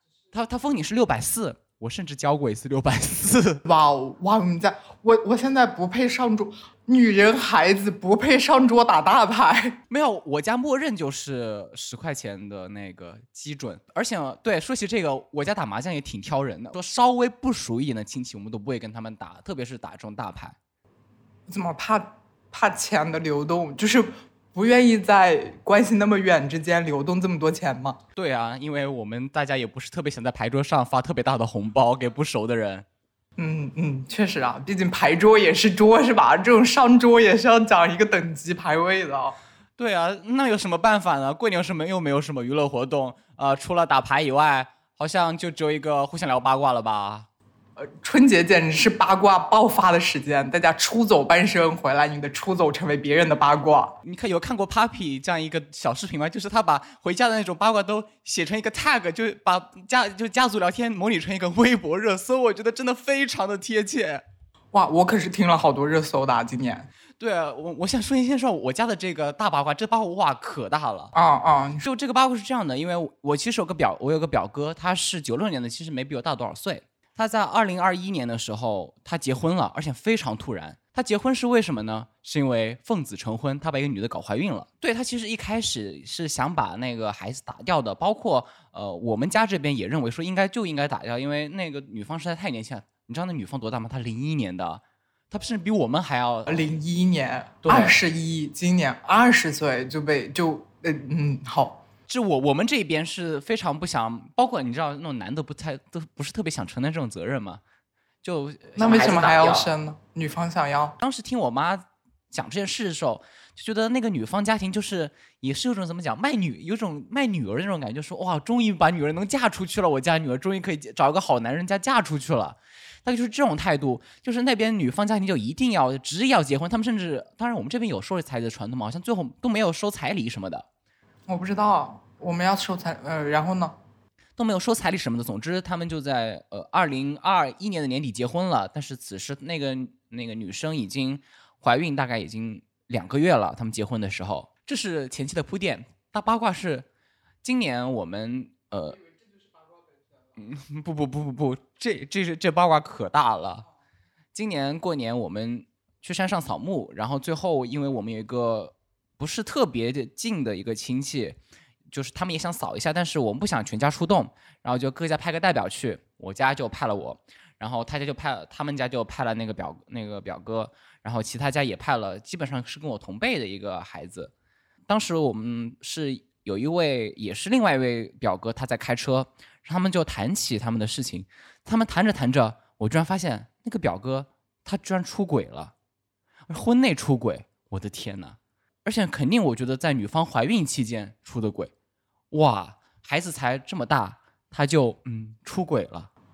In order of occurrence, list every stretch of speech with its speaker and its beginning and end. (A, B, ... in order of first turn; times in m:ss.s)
0:00.3-0:03.6 A
0:03.6-0:09.8 B
0:09.9-0:20.6 A
0:21.5-0:28.0 B
0:28.2-0:32.8 A
0:33.4-0:39.4 B
0:39.8-0:47.3 A
0:47.8-0:54.0 B
0:54.0-1:04.2 A
1:04.7-1:06.9 B
1:07.2-1:11.1 A
1:11.1-1:11.8 B
1:11.8-1:36.6 A
1:36.5-1:41.8 B
1:37.6-1:37.9 A
1:42.1-1:47.6 A
1:48.2-1:49.7 A
1:48.8-1:51.0 B
1:51.0-2:10.6 A
2:11.3-2:13.8 B
2:14.4-2:26.8 A
2:27.4-2:29.0 A
2:30.4-2:33.6 A
2:34.3-2:41.4 A
2:41.9-2:54.3 A
2:54.9-3:05.7 A
3:06.5-3:11.7 A
3:12.3-3:16.1 A